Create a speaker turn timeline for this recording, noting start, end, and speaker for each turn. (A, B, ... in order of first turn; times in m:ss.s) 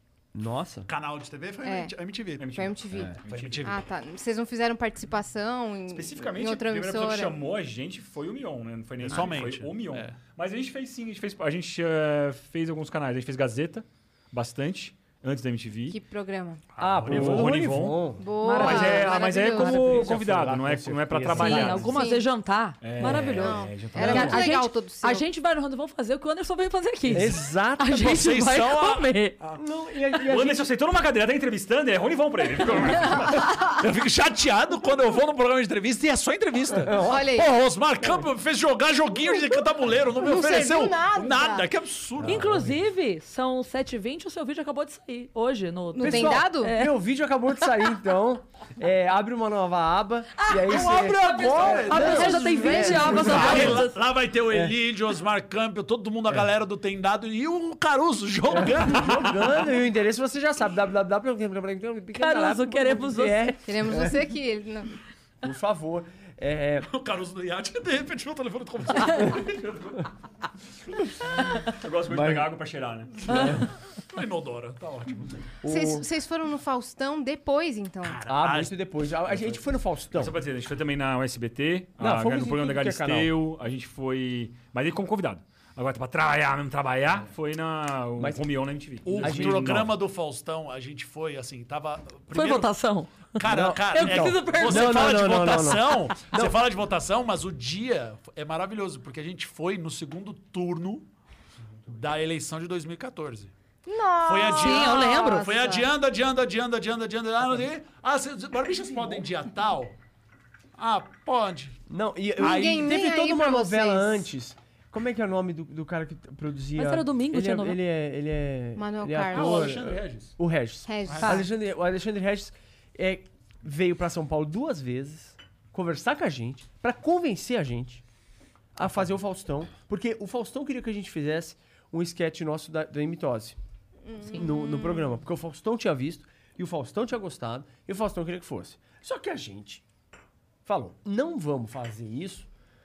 0:00.3-0:00.9 A
0:00.9-0:02.5 B
0:01.6-0:01.9 C
0:02.4-0:03.7 D
0:02.5-0:07.4 C
0:03.3-0:03.8 B
0:05.9-0:16.0 D
0:09.0-0:10.2 B
0:15.9-0:16.6 C
0:16.8-0:17.5 B
0:16.8-0:18.3 A
0:17.0-0:22.0 D
0:18.2-0:20.1 C
0:18.4-0:19.4 E
0:19.5-0:22.0 A
0:21.3-0:29.4 E
0:21.8-0:22.2 C
0:22.8-0:24.6 D
0:23.0-0:25.2 C
0:27.1-0:28.1 A
0:27.9-0:29.6 B
0:29.6-0:30.7 A
0:30.3-0:33.5 D
0:33.6-0:42.4 B
0:36.7-0:37.3 A
0:37.0-0:37.5 C
0:40.2-0:41.7 C
0:42.2-0:42.8 A
0:42.3-0:46.9 E
0:46.0-0:46.8 C
0:46.0-0:53.9 A
0:50.4-0:54.0 E
0:50.7-0:59.6 B
0:51.0-0:51.9 D
0:52.0-0:53.8 C
0:54.5-0:54.8 A
0:58.5-1:04.3 A
1:02.2-1:03.6 E
1:03.7-1:04.9 C
1:05.4-1:06.9 A
1:06.9-1:09.6 B
1:09.2-1:10.1 D
1:11.6-1:13.7 D
1:12.1-1:12.5 A
1:13.3-1:13.7 A
1:14.1-1:15.5 B
1:15.6-1:16.1 A
1:15.7-1:18.2 C
1:18.0-1:18.7 B
1:18.3-1:20.4 A
1:20.1-1:29.9 D
1:22.0-1:23.4 A
1:28.2-1:28.4 A
1:29.1-1:32.7 B
1:29.2-1:29.9 A
1:32.3-1:33.4 E
1:33.3-1:41.1 B
1:33.4-1:36.0 A
1:33.9-1:35.5 E
1:41.9-1:43.5 B
1:43.9-1:45.5 C
1:44.2-1:50.0 B
1:44.6-1:45.8 E
1:50.8-1:51.8 B
1:51.9-2:08.0 A
1:52.4-1:54.3 C
1:52.4-1:52.9 B
1:56.8-1:57.8 E
1:58.8-1:59.8 C
1:59.3-2:00.3 B
2:00.9-2:01.4 C
2:01.1-2:01.4 B
2:08.8-2:13.6 A
2:14.1-2:15.0 C
2:14.3-2:19.8 A
2:20.7-2:22.5 A